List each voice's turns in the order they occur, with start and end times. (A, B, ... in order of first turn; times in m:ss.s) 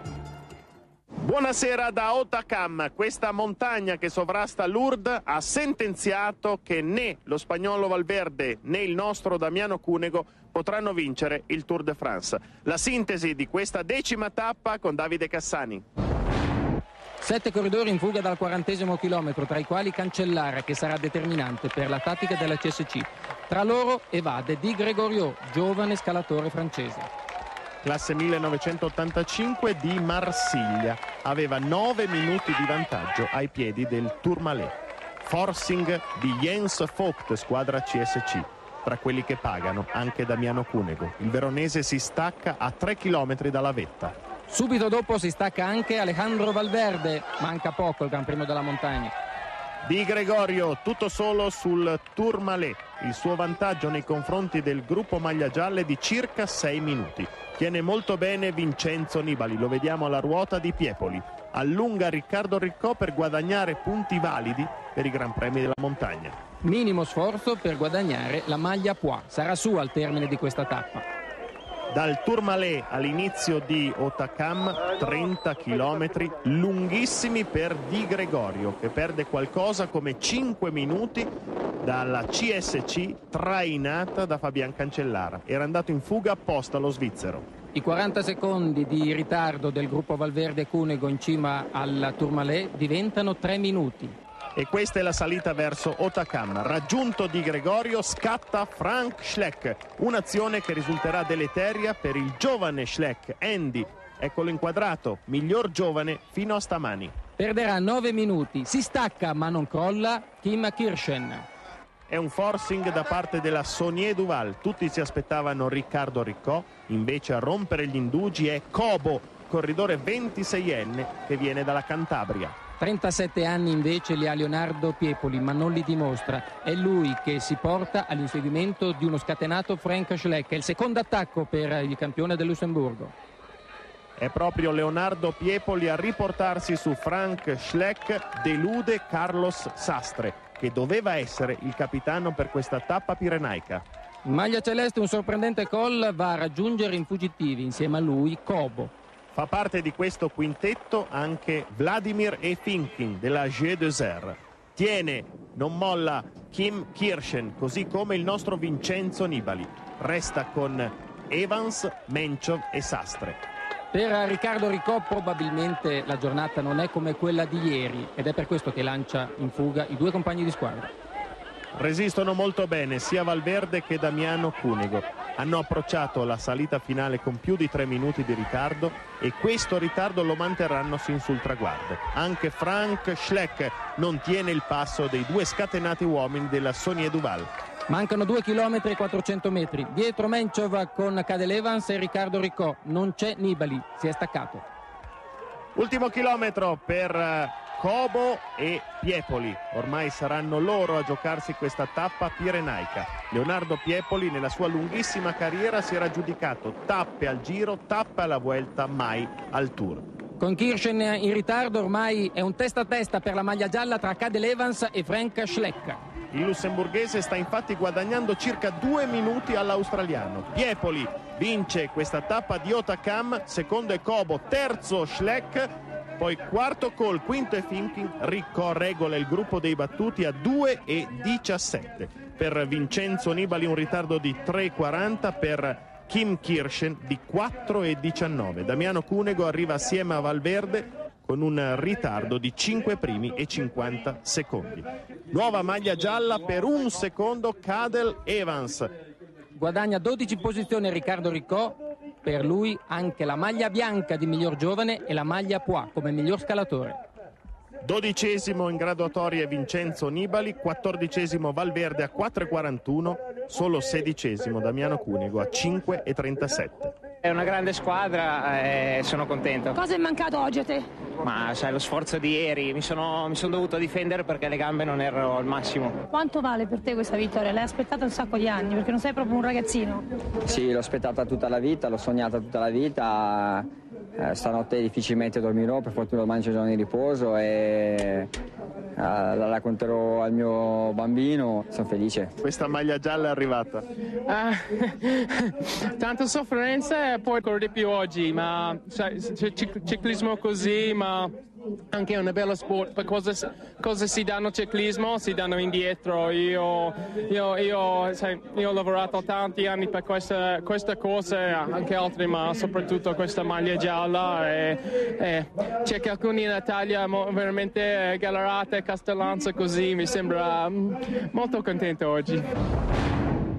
0:01.2-0:15.8 A
0:17.2-0:27.1 B
0:27.8-0:44.1 A
0:44.5-0:49.1 B
0:49.8-1:06.4 A
1:06.6-1:11.0 B
1:11.9-1:21.3 A
1:21.8-1:27.4 A
1:27.7-1:34.2 B
1:34.5-1:47.1 A
1:47.4-1:51.4 B
1:52.1-2:02.6 A
2:02.8-2:13.1 B
2:14.2-2:23.8 A
2:24.2-2:28.9 B
2:29.3-2:43.4 A
2:43.9-2:50.9 B
2:51.7-3:07.5 A
3:07.9-3:14.6 B
3:15.8-3:30.0 A
3:30.4-3:36.0 B
3:36.3-4:08.9 A
4:09.6-4:17.0 B
4:17.8-4:26.9 A
4:27.2-4:29.8 C
4:29.8-4:30.8 D
4:31.2-4:36.0 C
4:36.1-4:40.0 D
4:40.4-4:43.7 E
4:44.2-4:48.3 E
4:49.0-4:52.3 E
4:52.4-4:53.8 A
4:54.3-5:01.3 F
5:01.9-5:22.4 F